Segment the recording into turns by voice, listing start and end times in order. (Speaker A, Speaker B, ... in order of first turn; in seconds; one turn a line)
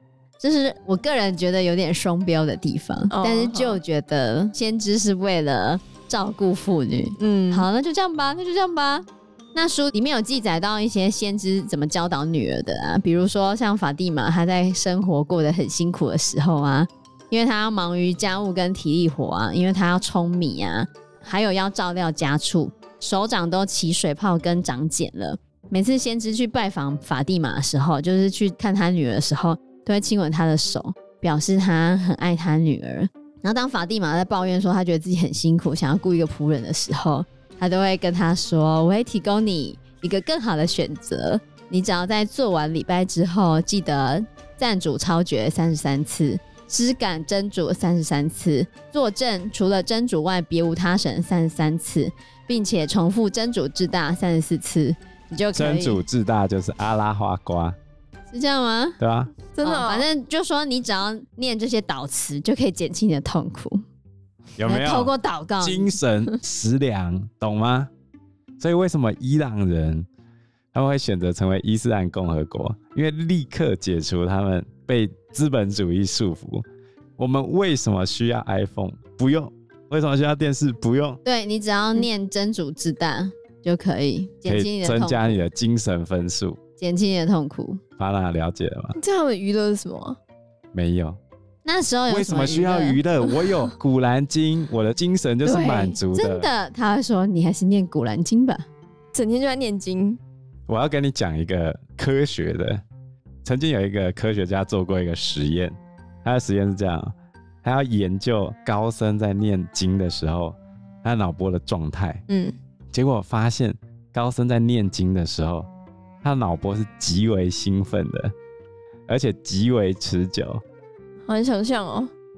Speaker A: 0.4-56.0
Speaker B: 3.1-3.8
Speaker B: 7.2-7.7
Speaker C: 55.5-57.8
Speaker A: 58.3-59.0
Speaker C: 59.0-59.4
Speaker B: 59.5-60.1
Speaker A: 59.6-63.8
Speaker C: 64.6-67.9
Speaker A: 64.6-66.0
Speaker C: 68.6-70.0
Speaker C: 70.7-76.6
Speaker C: 77.2-81.2
Speaker A: 81.2-85.5
Speaker C: 84.5-86.6
Speaker A: 86.8-87.8
Speaker C: 88.0-89.0
Speaker B: 89.0-90.2
Speaker C: 90.7-91.2
Speaker A: 91.6-93.0
Speaker C: 92.1-96.5
Speaker B: 95.4-96.0
Speaker A: 96.1-98.7
Speaker B: 99.1-100.2
Speaker C: 100.7-102.8
Speaker C: 103.4-107.1
Speaker C: 107.6-112.2
Speaker B: 112.3-112.5
Speaker C: 112.9-115.7
Speaker C: 116.2-118.3
Speaker C: 119.1-120.6
Speaker B: 121.3-122.1